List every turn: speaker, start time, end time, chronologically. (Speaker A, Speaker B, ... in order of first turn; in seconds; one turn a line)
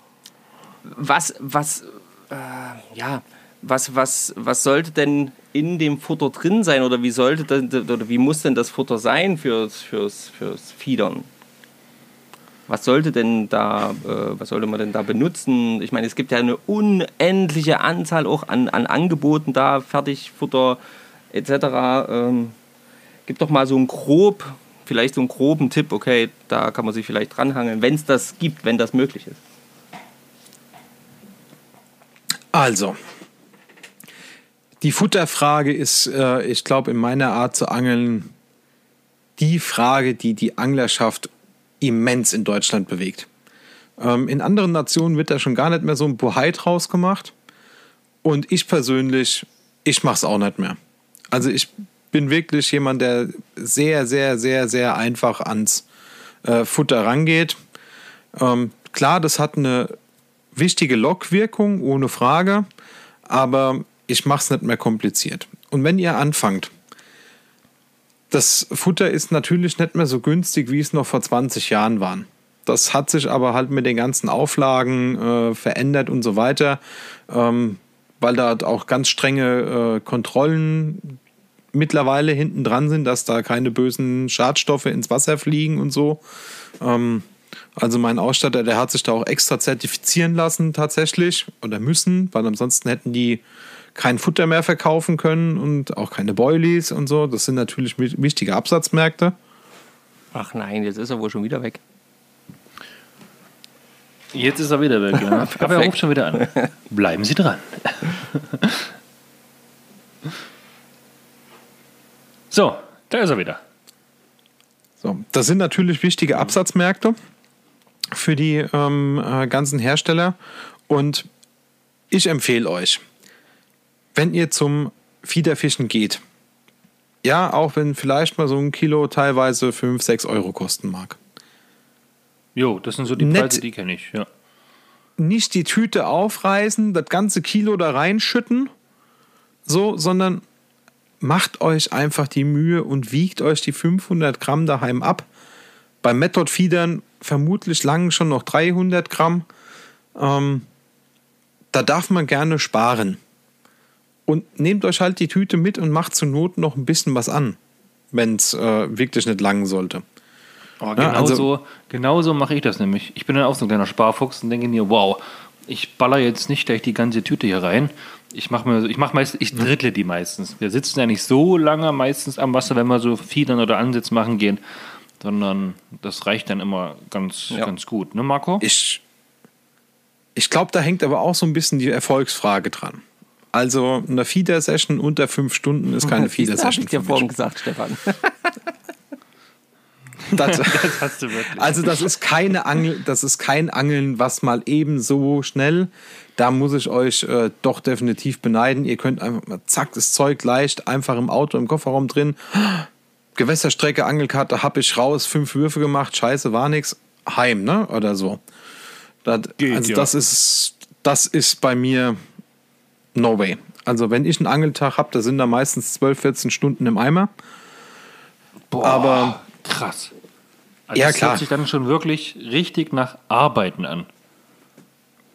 Speaker A: 0.8-11.3
Speaker A: 12.7-20.8
Speaker A: 21.3-22.6
Speaker A: 23.3-29.4
Speaker B: 32.5-33.0
Speaker B: 34.8-38.3
Speaker B: 39.4-41.3
Speaker B: 41.8-43.3
Speaker B: 44.0-47.3
Speaker B: 48.2-50.8
Speaker B: 51.3-55.8
Speaker B: 56.4-57.6
Speaker B: 58.4-60.0
Speaker B: 60.5-62.7
Speaker B: 63.3-66.7
Speaker B: 68.3-81.2
Speaker B: 81.7-86.2
Speaker B: 86.8-87.3
Speaker B: 87.8-93.4
Speaker B: 94.0-99.3
Speaker A: 100.3-101.8
Speaker C: 104.3-108.9
Speaker A: 105.2-106.7
Speaker C: 112.5-113.6
Speaker B: 115.0-117.2
Speaker B: 118.1-120.4
Speaker B: 120.9-121.3
Speaker B: 122.1-123.0
Speaker B: 124.2-126.2
Speaker B: 127.2-131.2
Speaker C: 132.6-134.3
Speaker B: 133.2-133.6
Speaker B: 135.2-138.7
Speaker B: 139.7-140.4
Speaker B: 141.2-145.3
Speaker B: 146.0-149.5
Speaker B: 150.2-150.7
Speaker B: 151.7-153.2
Speaker B: 154.3-157.6
Speaker B: 158.1-160.0
Speaker C: 160.8-174.6
Speaker B: 161.0-161.5
Speaker C: 175.2-178.7
Speaker B: 178.6-179.0
Speaker B: 180.3-183.0
Speaker B: 183.5-187.3
Speaker A: 186.1-188.5
Speaker C: 190.2-192.1
Speaker B: 190.3-208.4
Speaker B: 209.2-212.2
Speaker C: 209.6-210.1
Speaker B: 213.2-217.3
Speaker C: 218.7-220.1
Speaker B: 218.8-219.4
Speaker C: 220.9-224.1
Speaker B: 221.0-221.5